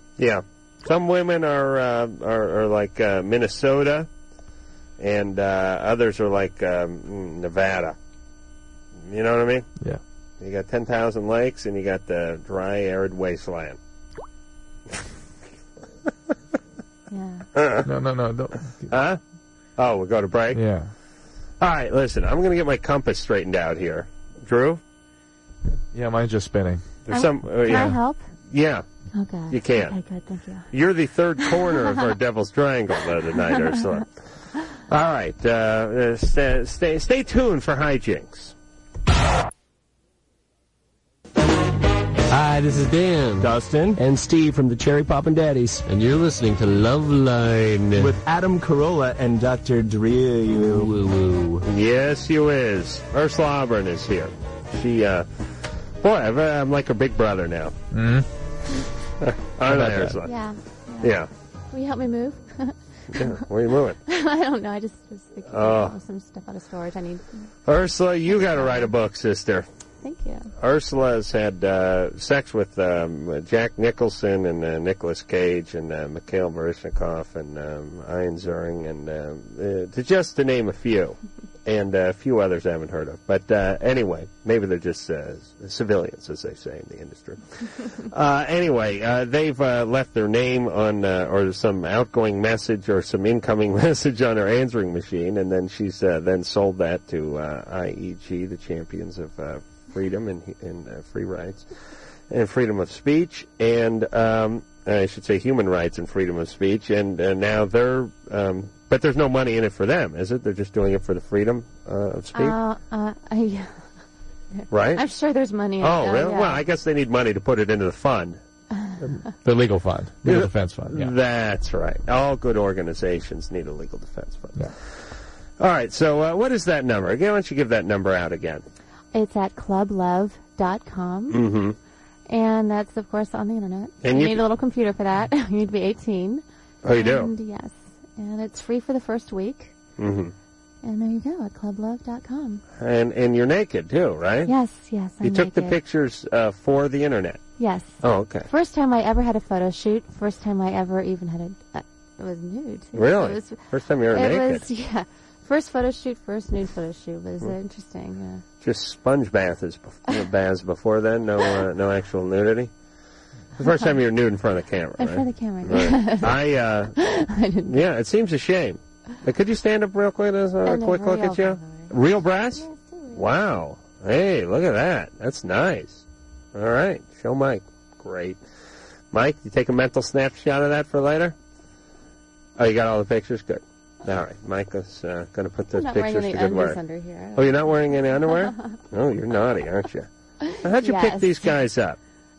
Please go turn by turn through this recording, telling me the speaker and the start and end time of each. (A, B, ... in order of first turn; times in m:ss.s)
0:00.2-0:04.1 A
0:05.0-0:08.0 A
0:09.0-0:09.7 A
0:10.4-0:13.8 A
0:17.1-0:17.5 B
0:17.5-0:17.9 A
0:17.8-0:18.9 C
0:18.9-0:19.2 A
0:19.8-0:20.6 A
0:20.5-0:20.9 C
0:21.6-0:24.8 A
0:25.9-0:26.9 C
0:27.0-0:28.8 A
0:27.1-0:28.3 B
0:29.1-0:30.7 B
0:29.5-0:30.0 A
0:30.7-0:34.1 A
0:31.4-0:31.8 B
0:34.8-0:38.5 A
0:42.3-0:51.6 D
0:51.6-0:55.3 A
0:56.0-0:57.8 A
0:57.9-0:58.3 C
0:59.2-1:00.3 A
0:59.7-1:00.2 C
1:00.2-1:01.1 B
1:01.0-1:01.3 A
1:01.7-1:03.4 B
1:03.1-1:04.0 A
1:04.1-1:07.4 B
1:05.5-1:06.0 A
1:07.7-1:09.7 A
1:08.3-1:08.9 B
1:10.0-1:10.5 B
1:10.6-1:41.7 A
1:42.3-1:52.6 A
1:52.3-1:53.9 B
1:54.6-1:56.6 B
1:54.7-1:55.0 A
1:55.8-1:58.4 A
1:59.4-2:01.1 C
2:00.2-2:05.1 A
2:05.6-2:08.6 A
2:09.1-2:11.4 B
2:11.3-2:11.8 A
2:12.3-2:19.7 B
2:14.0-2:14.4 A
2:16.8-2:17.3 A
2:20.0-2:20.3 A
2:20.8-2:22.6 B
2:22.8-2:24.5 A
2:24.4-2:25.8 B
2:25.2-2:27.4 A
2:27.6-2:38.4 B
2:28.0-2:28.5 A
2:32.9-2:34.6 A
2:38.6-2:42.7 A
2:43.6-2:47.0 A
2:45.0-2:47.8 B
2:47.6-2:58.4 A
2:50.6-2:52.0 B
2:52.6-2:53.2 B
2:59.1-3:01.4 A
3:02.6-3:06.8 A
3:05.7-3:08.8 B
3:07.3-3:10.1 A
3:10.5-3:11.5 B
3:10.6-3:12.0 A